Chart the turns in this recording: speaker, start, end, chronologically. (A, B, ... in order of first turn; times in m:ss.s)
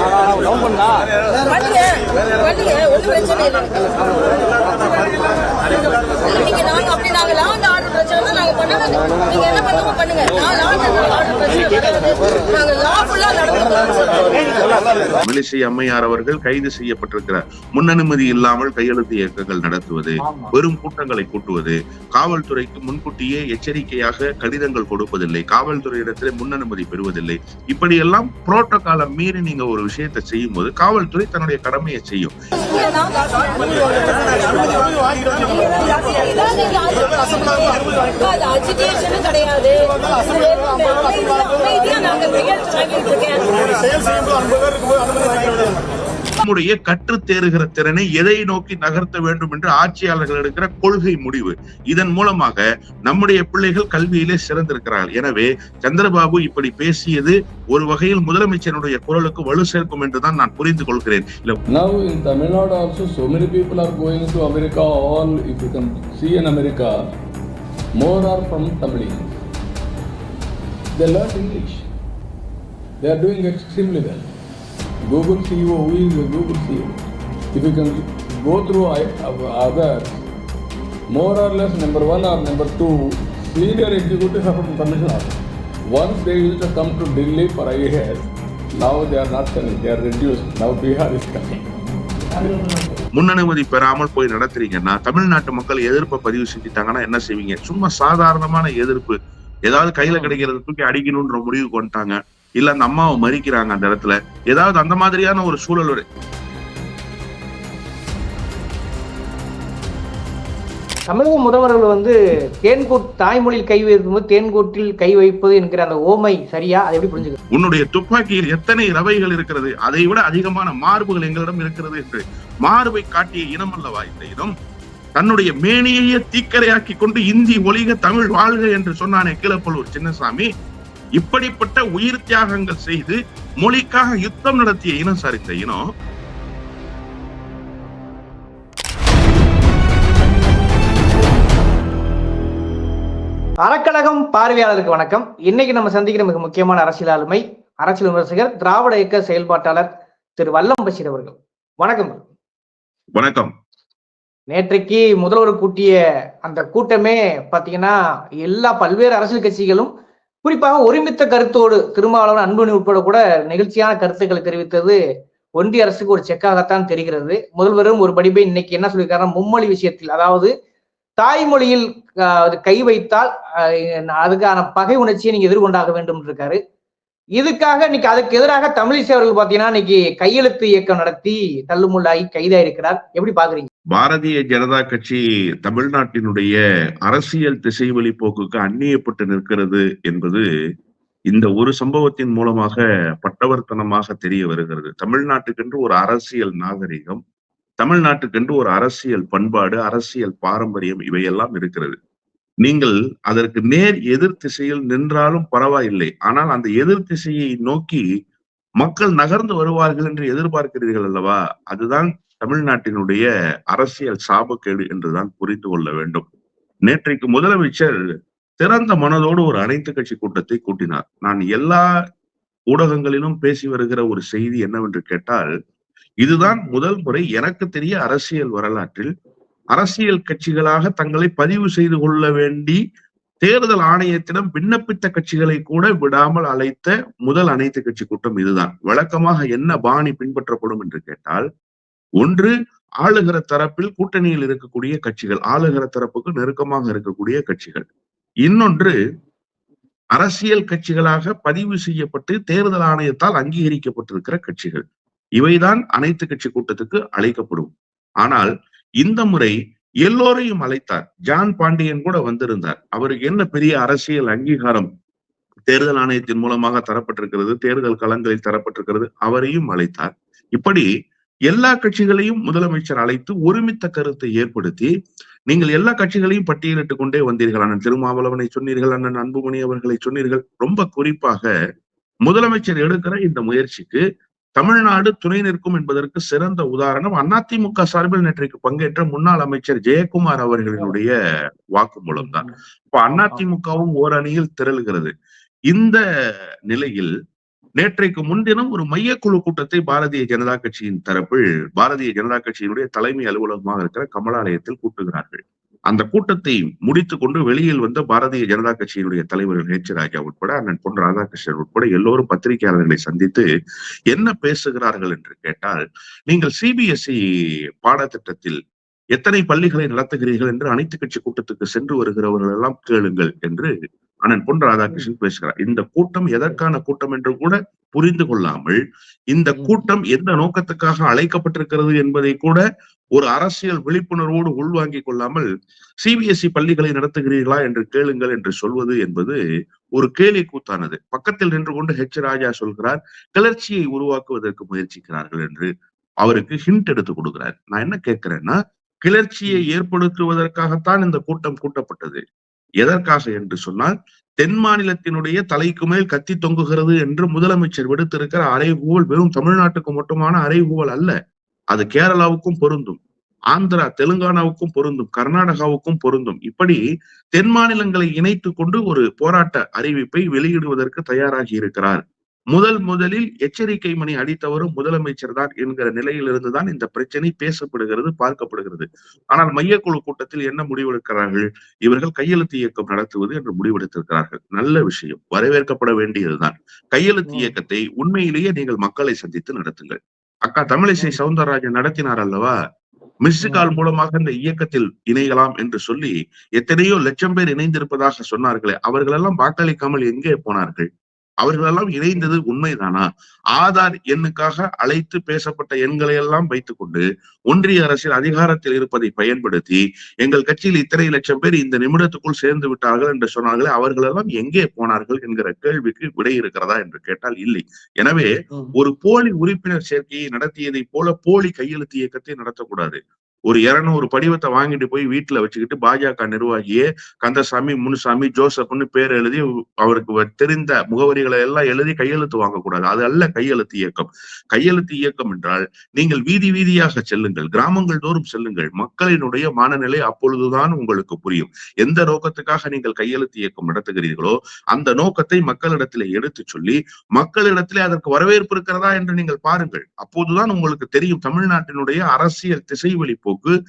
0:01.5-0:04.0 A
0:06.2-0:14.0 A
0:15.2-0:32.4 B
0:20.2-0:20.5 C
0:32.8-0:33.7 A
0:34.2-0:44.4 A
0:44.9-0:45.4 A
0:46.4-1:01.6 B
1:01.7-1:07.0 D
1:08.0-1:09.3 D
1:11.0-1:11.9 D
1:13.0-1:14.3 D
1:15.1-1:17.0 D
1:17.5-1:20.2 D
1:21.1-1:25.4 D
1:25.9-1:28.3 D
1:28.8-1:31.6 D
1:32.4-1:33.0 C
1:33.2-1:39.2 B
1:39.7-1:46.0 B
1:40.1-1:40.4 C
1:51.1-1:57.4 C
1:57.5-2:04.5 B
2:05.2-2:10.5 B
2:11.2-2:15.8 B
2:23.6-2:32.2 C
2:33.2-2:33.5 B
2:34.5-2:39.9 C
2:40.4-2:45.0 C
2:45.6-2:50.5 C
2:51.2-2:56.6 C
2:57.4-3:03.7 C
3:03.9-3:10.4 B
3:11.3-3:17.2 B
3:17.8-3:22.0 B
3:22.6-3:28.0 B
3:28.8-3:36.2 B
3:36.9-3:37.9 B
3:38.6-3:41.9 B
3:42.7-3:45.5 B
3:46.2-3:49.1 B
3:49.7-3:52.8 B
3:53.4-4:01.4 B
4:02.2-4:02.5 B
4:03.0-4:07.9 B
4:08.4-4:09.0 B
4:10.2-4:14.8 B
4:15.4-4:18.5 B
4:19.0-4:24.9 B
4:25.7-4:30.9 B
4:31.5-4:34.9 B
4:35.5-4:41.5 B
4:42.3-4:44.0 B
4:44.6-4:51.1 B
4:51.8-4:55.1 B
4:52.2-4:52.5 C
4:55.7-4:56.0 B
4:56.7-4:57.1 B
4:57.8-5:13.5 B
5:14.1-5:17.2 B
5:17.8-5:18.6 B
5:19.2-5:23.7 B
5:24.2-5:28.8 B
5:29.3-5:32.6 B
5:33.2-5:35.5 B
5:36.0-5:39.4 B
5:40.0-5:45.7 B
5:46.2-5:52.2 B
5:52.8-6:01.2 B
6:01.7-6:03.0 B
6:03.5-6:06.8 B
6:07.4-6:12.0 B
6:12.5-6:32.5 B
6:33.2-6:40.9 B
6:33.4-6:33.7 C
6:41.4-7:33.5 B